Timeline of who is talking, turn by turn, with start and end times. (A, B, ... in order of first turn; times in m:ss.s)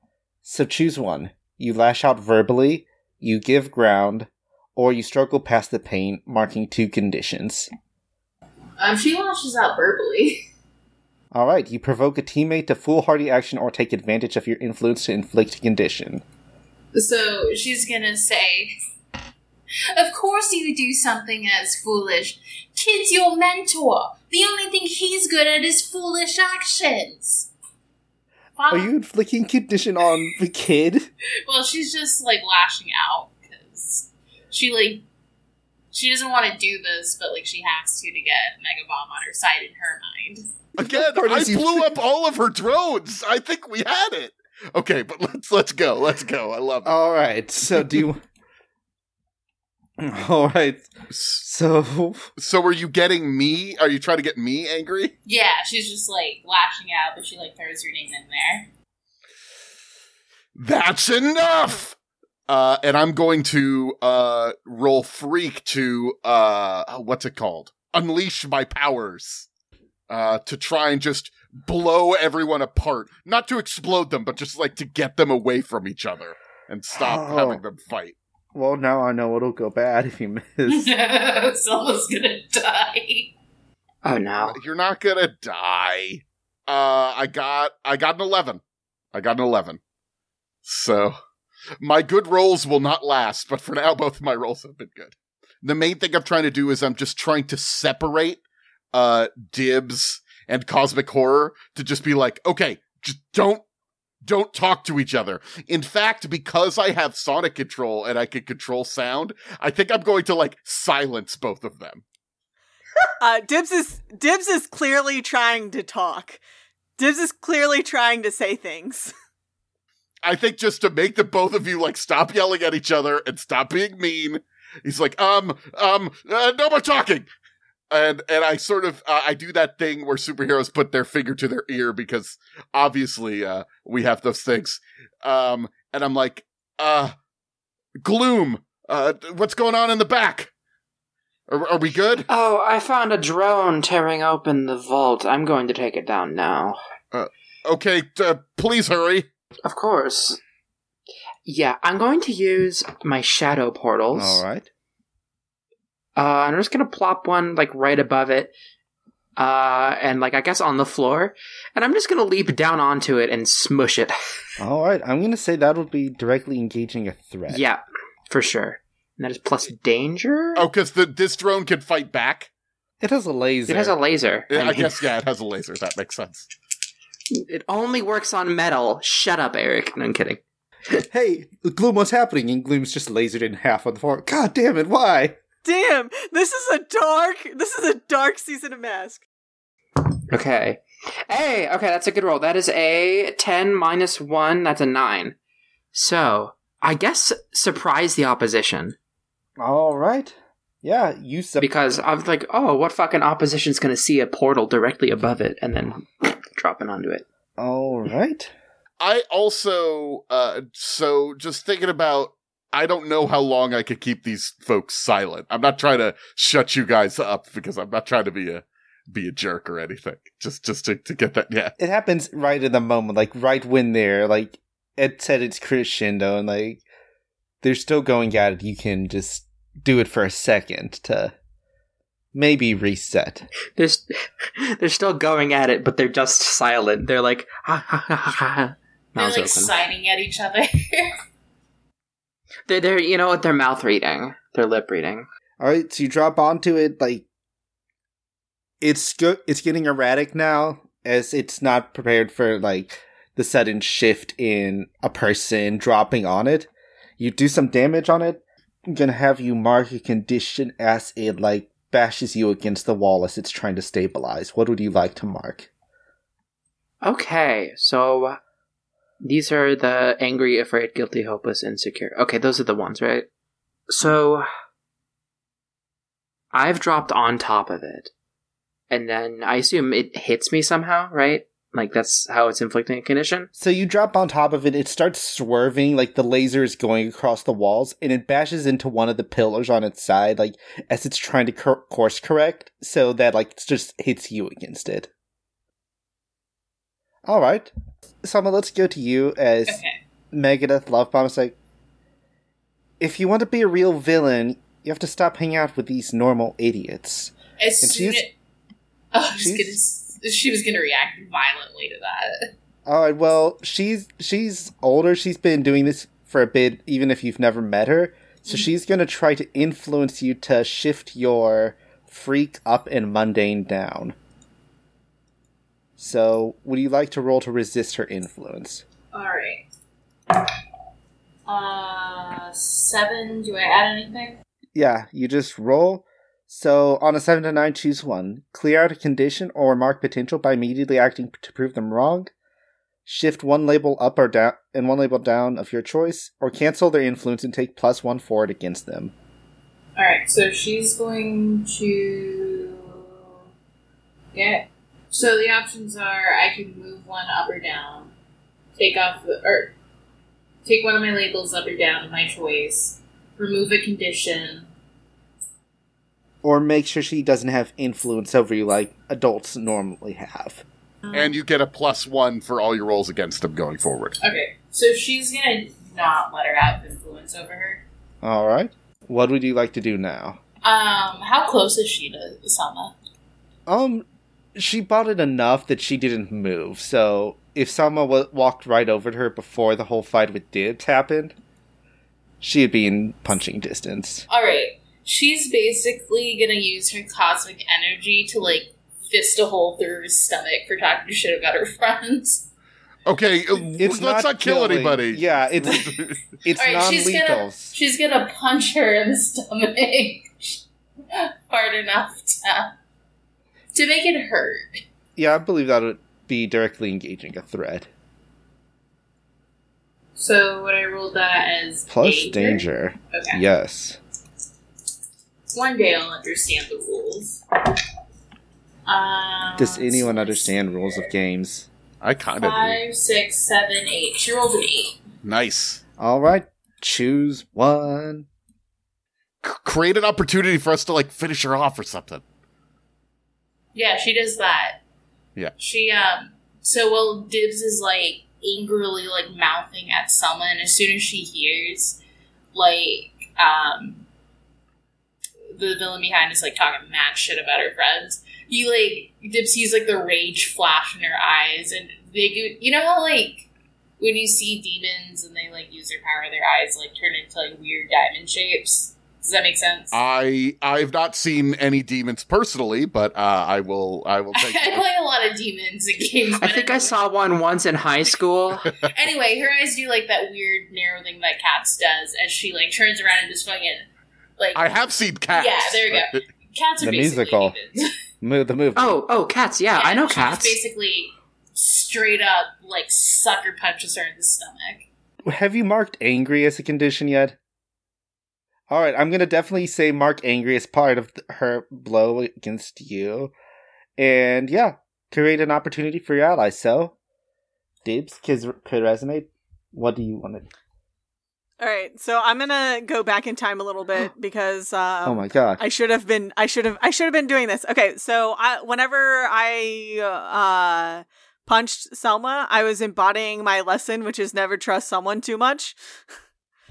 0:00.4-0:07.7 A
0:08.8-0:10.4 B
0:11.3-0:16.2 A
0:16.9-0:18.7 B
0:19.9-0:27.5 B
0:28.6-0:28.9 B
0:28.7-0:31.1 A
0:31.4-0:35.0 B
0:35.9-0:40.4 B
0:40.8-0:46.9 C
0:40.8-0:41.9 A
0:46.8-0:48.2 A
0:47.8-0:48.0 C
0:50.0-0:52.3 A
0:51.1-0:51.4 C
0:52.4-0:55.1 C
0:55.2-0:58.7 B
1:00.6-1:02.0 C
1:02.5-1:09.5 C
1:10.1-1:18.2 C
1:17.0-1:17.6 A
1:18.5-1:20.9 A
1:20.7-1:23.3 B
1:24.0-1:24.6 D
1:24.4-1:28.6 C
1:29.1-1:29.8 C
1:30.6-1:31.1 C
1:31.8-1:38.4 C
1:38.9-1:43.6 C
1:44.2-1:52.0 C
1:53.2-1:56.4 E
1:57.0-1:59.1 E
2:00.2-2:07.3 C
2:07.9-2:17.1 C
2:18.0-2:20.5 C
2:21.5-2:22.3 C
2:22.3-2:26.8 D
2:27.1-2:29.3 C
2:29.6-2:30.4 D
2:31.4-2:34.4 D
2:34.1-2:34.7 A
2:36.2-2:38.5 D
2:39.4-2:44.1 D
2:44.6-2:47.6 A
2:47.5-2:50.6 D
2:50.6-2:52.5 C
2:53.0-2:53.9 A
2:53.7-2:54.9 D
2:54.5-2:56.5 C
2:57.3-3:00.4 D
3:01.1-3:05.4 A
3:05.6-3:09.2 E
3:10.3-3:15.3 D
3:15.9-3:18.9 D
3:19.6-3:21.7 A
3:21.6-3:27.2 D
3:27.6-3:28.5 A
3:29.0-3:41.7 C
3:41.8-3:46.8 A
3:47.6-3:51.3 A
3:52.3-3:53.5 A
3:53.8-3:59.7 D
3:59.2-4:01.1 B
4:02.7-4:05.3 D
4:05.6-4:07.2 A
4:08.8-4:25.7 A
4:27.0-4:28.4 D
4:29.2-4:33.3 D
4:33.9-4:34.5 D
4:36.5-4:38.1 D
4:38.9-4:43.5 D
4:43.6-4:55.1 A
4:57.2-4:57.7 A
4:58.2-4:59.8 A
4:59.7-5:00.0 B
5:00.3-5:01.6 A
5:03.0-5:08.2 A
5:07.6-5:08.3 B
5:09.1-5:12.5 B
5:09.4-5:09.8 A
5:12.8-5:24.2 A
5:26.0-5:28.8 A
5:29.1-5:29.7 B
5:31.4-5:34.4 B
5:34.7-5:42.3 A
5:43.0-5:49.1 A
5:50.0-5:53.1 B
5:54.3-5:58.1 B
5:58.8-5:59.7 B
6:00.6-6:04.7 B
6:06.4-6:10.6 A
6:11.1-6:14.1 C
6:14.2-6:17.8 B
6:18.2-6:20.4 A
6:20.6-6:22.9 B
6:23.7-6:31.3 A
6:32.4-6:34.2 A
6:34.3-6:42.4 B
6:43.0-6:46.2 C
6:43.7-6:45.9 A
6:45.7-6:50.6 B
6:46.4-6:47.8 A
6:51.1-6:52.7 B
6:53.7-6:54.8 B
6:55.2-6:57.9 A
7:00.2-7:03.4 B
7:01.9-7:04.0 A
7:05.5-7:07.4 B
7:08.8-7:11.1 B
7:09.6-7:11.7 A
7:12.0-7:12.8 C
7:12.4-7:15.0 B
7:15.2-7:15.8 C
7:16.0-7:18.3 A
7:19.4-7:22.2 C
7:23.7-7:24.8 B
7:25.6-7:32.0 B
7:32.5-7:34.0 B
7:35.5-7:43.5 B
7:44.0-7:50.0 B
7:49.9-7:54.8 C
7:54.3-7:56.9 B
7:56.4-7:58.7 D
7:58.8-8:03.8 B
8:04.4-8:04.6 B
8:04.5-8:06.2 C
8:05.3-8:07.9 B
8:06.8-8:07.6 A
8:08.2-8:09.0 A
8:08.8-8:10.6 D
8:09.7-8:14.9 B
8:15.2-8:17.4 A
8:18.7-8:23.3 A
8:24.0-8:26.9 A
8:27.8-8:30.5 A
8:31.6-8:45.8 E
8:35.0-8:35.6 A